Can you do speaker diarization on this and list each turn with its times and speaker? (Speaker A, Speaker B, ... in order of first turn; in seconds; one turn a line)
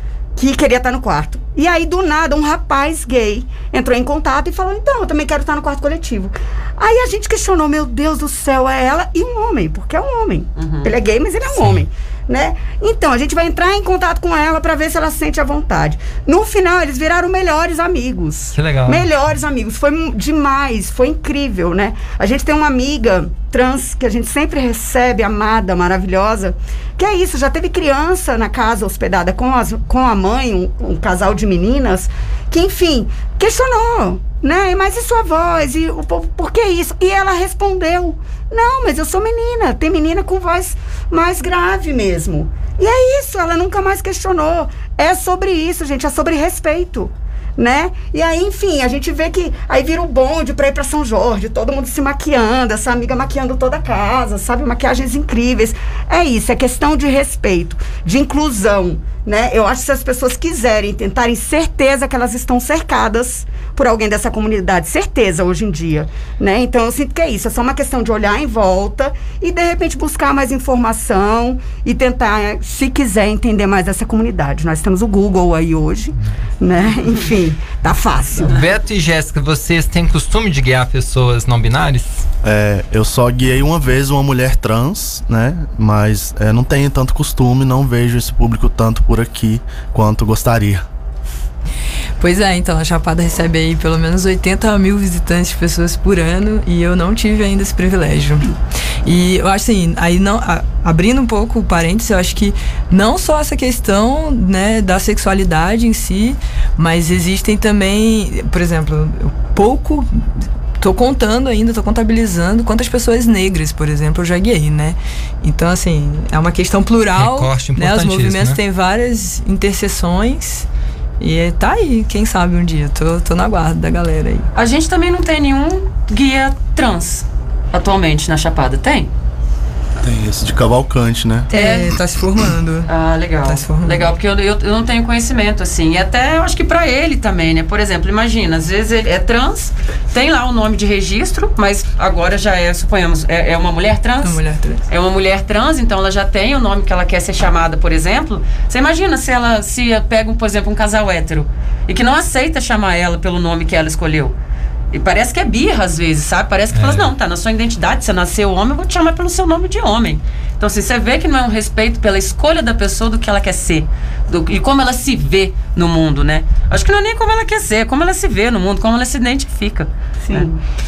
Speaker A: 0.4-78.7
Speaker B: 10.6-10.9
Speaker C: 11.5-11.8
Speaker C: 18.6-19.1
Speaker C: 78.4-82.2
Speaker D: 82.4-90.8
Speaker E: 92.2-98.5
Speaker E: 99.0-120.7
Speaker C: 117.2-118.6
Speaker E: 121.2-124.5
Speaker B: 124.5-129.1
Speaker D: 130.0-131.5
Speaker E: 131.5-132.9
Speaker B: 131.5-131.9
Speaker B: 132.9-154.3
Speaker E: 133.4-134.1
Speaker E: 144.2-144.8
Speaker B: 154.9-170.5
Speaker C: 156.7-157.1
Speaker A: 170.2-170.6